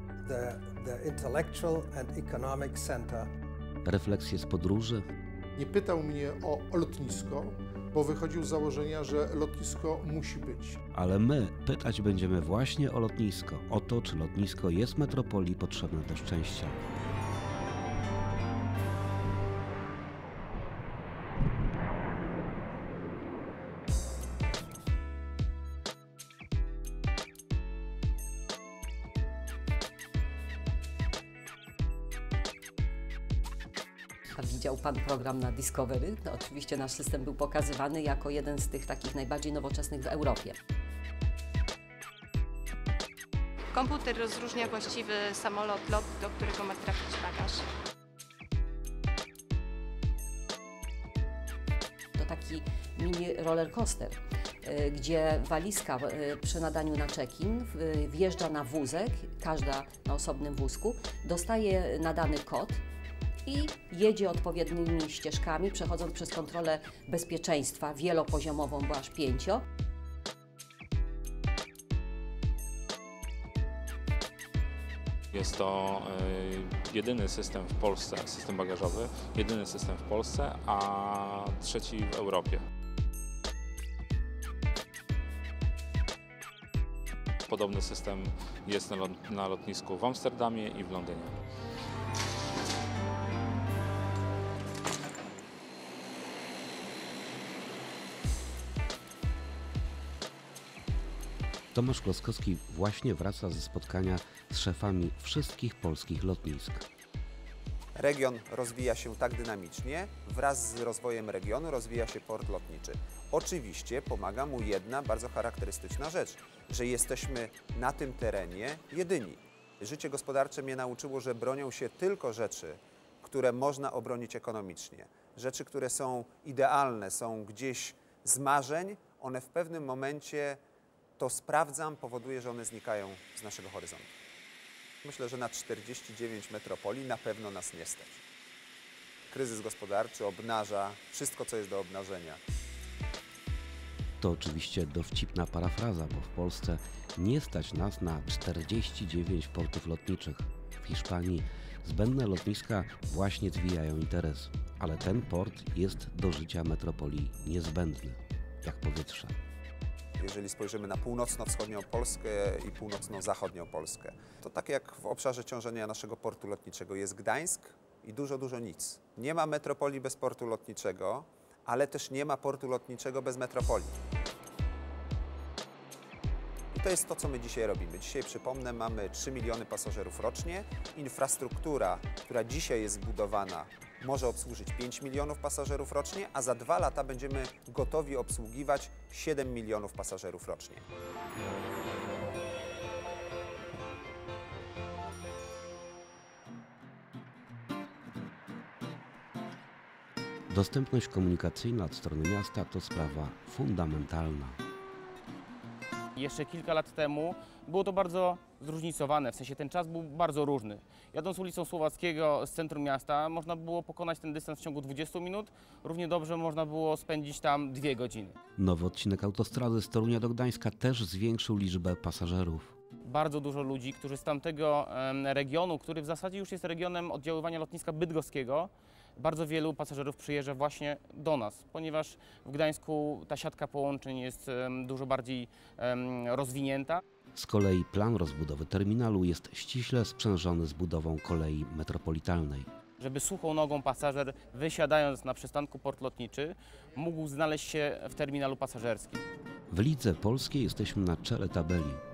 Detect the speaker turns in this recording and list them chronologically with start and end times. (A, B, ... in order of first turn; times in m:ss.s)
0:00.2-0:03.3 A
0:03.8-0:05.0 B
0:05.6-0:10.8 C
0:10.9-0:16.8 B
0:34.3-0:40.6 D
0:43.7-0:47.6 E
0:52.2-1:02.8 D
1:03.4-1:09.6 D
1:15.3-1:22.6 F
1:27.5-1:31.4 F
1:41.7-1:46.8 B
1:48.0-2:10.6 G
2:11.2-2:14.1 G
2:15.0-2:18.2 G
2:19.3-2:22.4 G
2:24.2-2:39.3 B
2:40.2-2:53.9 G
2:56.7-3:10.8 G
3:20.5-3:24.6 B
3:26.2-3:38.4 H
3:38.6-3:42.7 B
3:43.1-3:57.0 H
3:57.3-4:02.7 B
4:03.0-4:09.2 H
4:09.7-4:12.0 B